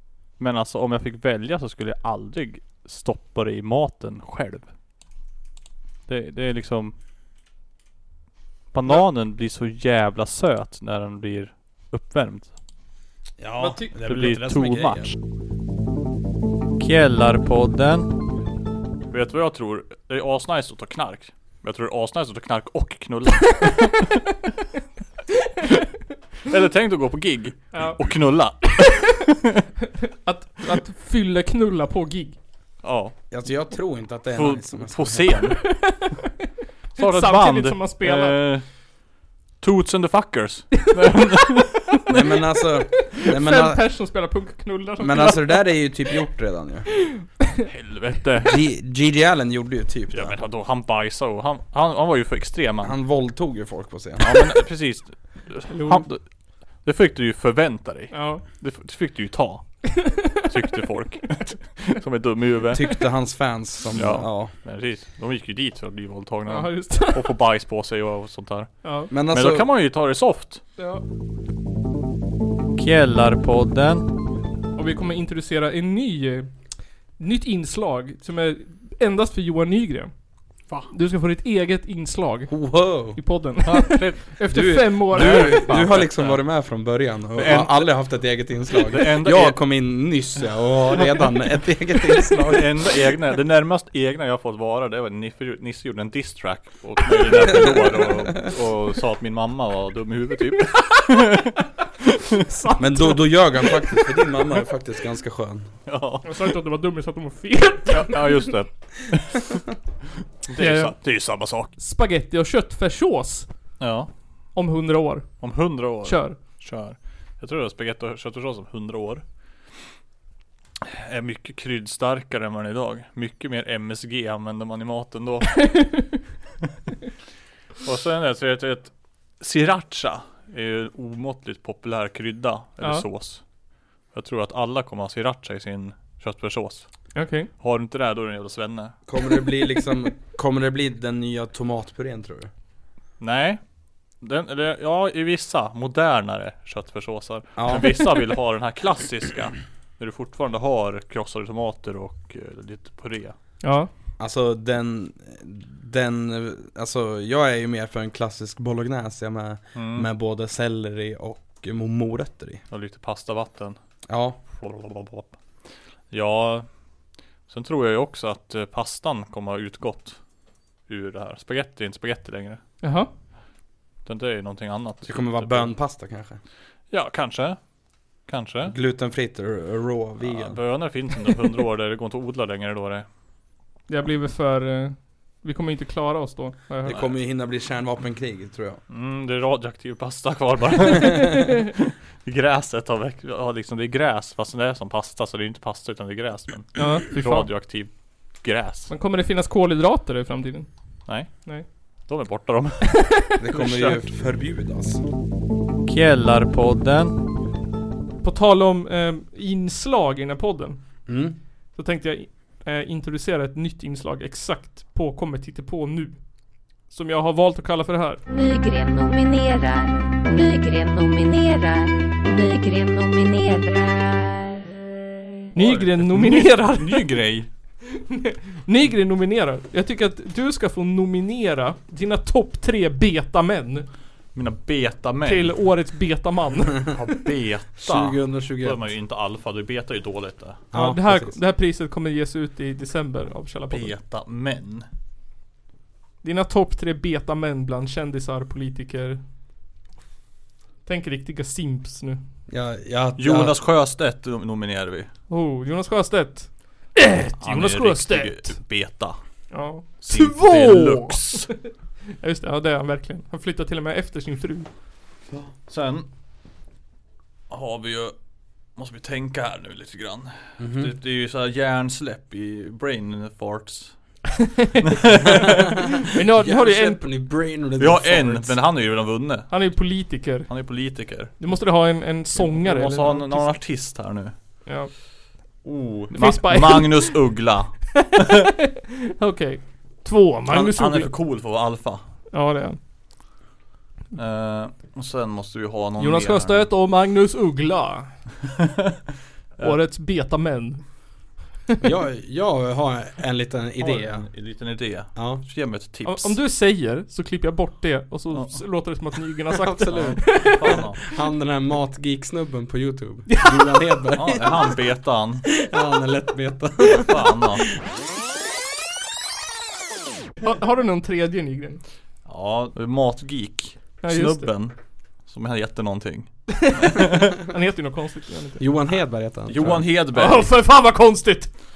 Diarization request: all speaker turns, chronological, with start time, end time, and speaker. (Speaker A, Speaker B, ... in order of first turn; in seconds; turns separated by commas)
Speaker A: 0.4-4.7, Speaker A: 6.1-7.0, Speaker A: 8.7-12.6, Speaker B: 13.4-15.1, Speaker C: 13.6-13.9, Speaker A: 14.0-15.2, Speaker A: 16.8-18.2, Speaker A: 19.1-24.1, Speaker A: 26.4-29.4, Speaker C: 27.7-28.0, Speaker C: 28.7-29.0, Speaker C: 30.0-32.4, Speaker A: 32.8-33.1, Speaker B: 33.3-35.4, Speaker A: 34.3-35.8, Speaker C: 35.6-36.3, Speaker C: 36.9-38.4, Speaker A: 37.0-38.8, Speaker A: 39.6-42.0, Speaker C: 42.1-45.6, Speaker B: 42.1-43.8, Speaker B: 45.0-46.9, Speaker A: 47.6-48.5, Speaker B: 48.4-50.4, Speaker A: 50.1-52.9, Speaker B: 52.8-54.5, Speaker A: 54.2-62.9, Speaker C: 55.7-56.1, Speaker C: 58.1-58.5, Speaker B: 62.7-64.5, Speaker A: 63.9-70.6, Speaker C: 66.5-67.3, Speaker C: 68.8-69.1, Speaker B: 69.1-69.7, Speaker C: 70.8-71.0, Speaker A: 72.8-74.1, Speaker C: 74.8-76.5, Speaker C: 77.2-80.1, Speaker C: 80.7-85.9, Speaker B: 82.5-83.2, Speaker A: 83.6-84.4, Speaker B: 84.5-92.7, Speaker A: 85.2-86.4, Speaker A: 87.3-88.0, Speaker A: 88.8-89.6, Speaker A: 92.4-101.5, Speaker C: 102.4-104.0, Speaker B: 102.8-105.7, Speaker A: 105.9-106.5, Speaker C: 106.2-108.3, Speaker A: 107.9-109.5, Speaker A: 110.5-111.8, Speaker C: 110.6-111.0, Speaker C: 111.8-113.5, Speaker A: 113.8-114.1, Speaker C: 114.5-116.4, Speaker A: 115.4-119.2, Speaker A: 120.8-125.8, Speaker C: 125.6-126.0, Speaker A: 127.8-133.4, Speaker C: 132.8-133.1, Speaker A: 134.1-136.9, Speaker C: 137.2-137.5, Speaker A: 137.6-139.0, Speaker B: 139.1-142.5, Speaker A: 143.2-143.6, Speaker A: 144.2-153.3, Speaker B: 147.6-148.0, Speaker C: 153.6-153.9, Speaker B: 154.2-162.6, Speaker A: 159.8-160.1, Speaker A: 162.7-163.8, Speaker B: 164.1-164.4, Speaker A: 164.5-165.4, Speaker A: 166.1-166.7, Speaker A: 167.5-170.2, Speaker A: 170.9-172.6, Speaker C: 172.8-173.1, Speaker A: 174.1-175.7, Speaker B: 175.1-176.4, Speaker A: 176.9-177.6, Speaker A: 178.3-178.8, Speaker B: 178.7-180.7, Speaker A: 180.2-183.1, Speaker C: 183.9-187.1, Speaker B: 186.8-188.8, Speaker A: 188.9-198.9, Speaker C: 191.3-191.5, Speaker C: 196.8-197.5, Speaker C: 198.9-200.7, Speaker A: 201.1-201.4, Speaker C: 201.2-201.7, Speaker A: 202.1-204.0, Speaker C: 202.8-203.2, Speaker B: 203.4-205.0, Speaker A: 205.8-207.2, Speaker C: 208.2-210.8, Speaker B: 211.1-211.4, Speaker C: 211.7-216.2, Speaker C: 216.9-218.2, Speaker D: 218.3-224.6, Speaker C: 225.5-227.1, Speaker A: 225.6-227.5, Speaker C: 228.0-233.9, Speaker A: 234.3-235.5, Speaker C: 235.2-236.9, Speaker A: 236.9-240.6, Speaker B: 237.8-238.9, Speaker B: 240.7-241.4, Speaker C: 240.7-244.0, Speaker A: 243.7-244.9, Speaker C: 246.2-249.2, Speaker C: 250.8-252.2, Speaker B: 252.5-253.6, Speaker A: 253.2-255.1, Speaker C: 255.3-258.6, Speaker A: 257.4-259.2, Speaker C: 259.5-261.7, Speaker A: 260.0-261.5, Speaker C: 262.2-264.7, Speaker A: 265.6-266.1, Speaker A: 267.5-268.2, Speaker A: 268.7-274.1, Speaker B: 270.6-270.9, Speaker A: 274.8-275.5, Speaker B: 275.1-275.8, Speaker C: 276.0-277.0, Speaker B: 276.3-278.6, Speaker A: 277.8-279.8, Speaker C: 279.5-283.8, Speaker A: 280.5-281.4, Speaker A: 282.3-284.4, Speaker C: 284.6-284.9, Speaker A: 285.6-288.3, Speaker C: 286.1-287.3, Speaker C: 289.2-291.1, Speaker A: 290.5-292.0, Speaker C: 292.3-292.8, Speaker A: 294.1-296.7, Speaker C: 296.0-298.4, Speaker A: 299.6-299.8, Speaker C: 299.6-300.9, Speaker B: 301.8-304.3, Speaker A: 303.8-306.4, Speaker B: 305.1-305.5, Speaker C: 306.0-310.7, Speaker B: 309.5-314.8, Speaker A: 309.9-311.0, Speaker C: 313.3-313.8, Speaker A: 314.2-315.5, Speaker B: 315.4-317.7, Speaker A: 316.8-317.7, Speaker C: 320.4-321.8, Speaker A: 322.3-327.3, Speaker C: 324.0-324.6, Speaker C: 326.5-328.6, Speaker B: 328.6-329.9, Speaker A: 329.5-330.5, Speaker C: 330.1-331.6